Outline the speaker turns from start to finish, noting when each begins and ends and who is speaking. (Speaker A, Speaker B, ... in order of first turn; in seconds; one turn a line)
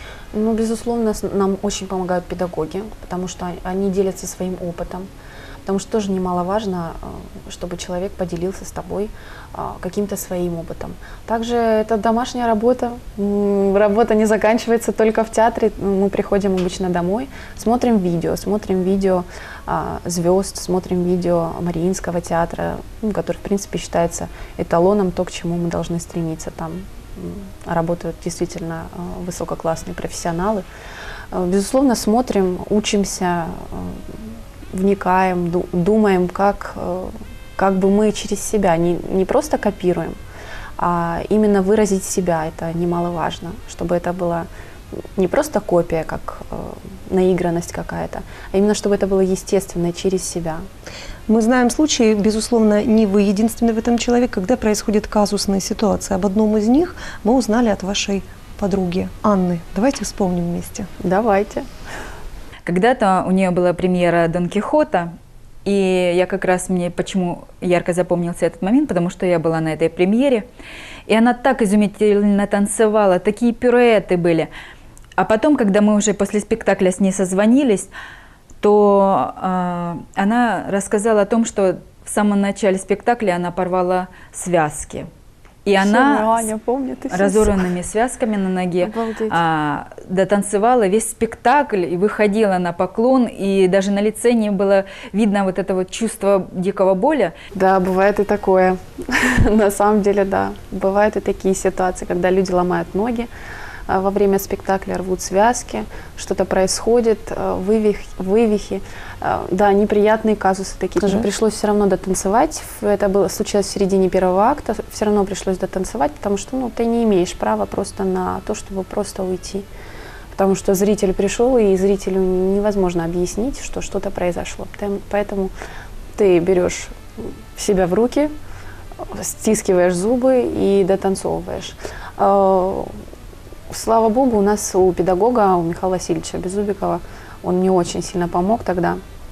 Speaker A: 0.3-5.1
Speaker A: 5.7-30.6
Speaker A: 31.3-34.1
Speaker A: 34.7-40.1
Speaker A: 40.8-50.6
Speaker B: 51.3-60.9
Speaker A: 61.0-61.7
Speaker C: 62.6-65.1
Speaker C: 65.6-70.5
Speaker C: 71.1-74.5
Speaker C: 75.2-77.9
Speaker C: 78.6-85.1
Speaker C: 85.6-86.3
Speaker A: 85.8-87.7
Speaker C: 87.1-97.3
Speaker A: 88.8-89.4
Speaker A: 97.5-103.3
Speaker A: 103.9-119.7
Speaker A: 120.3-125.5
Speaker A: 126.2-128.3
Speaker A: 129.0-133.0
Speaker A: 133.7-139.0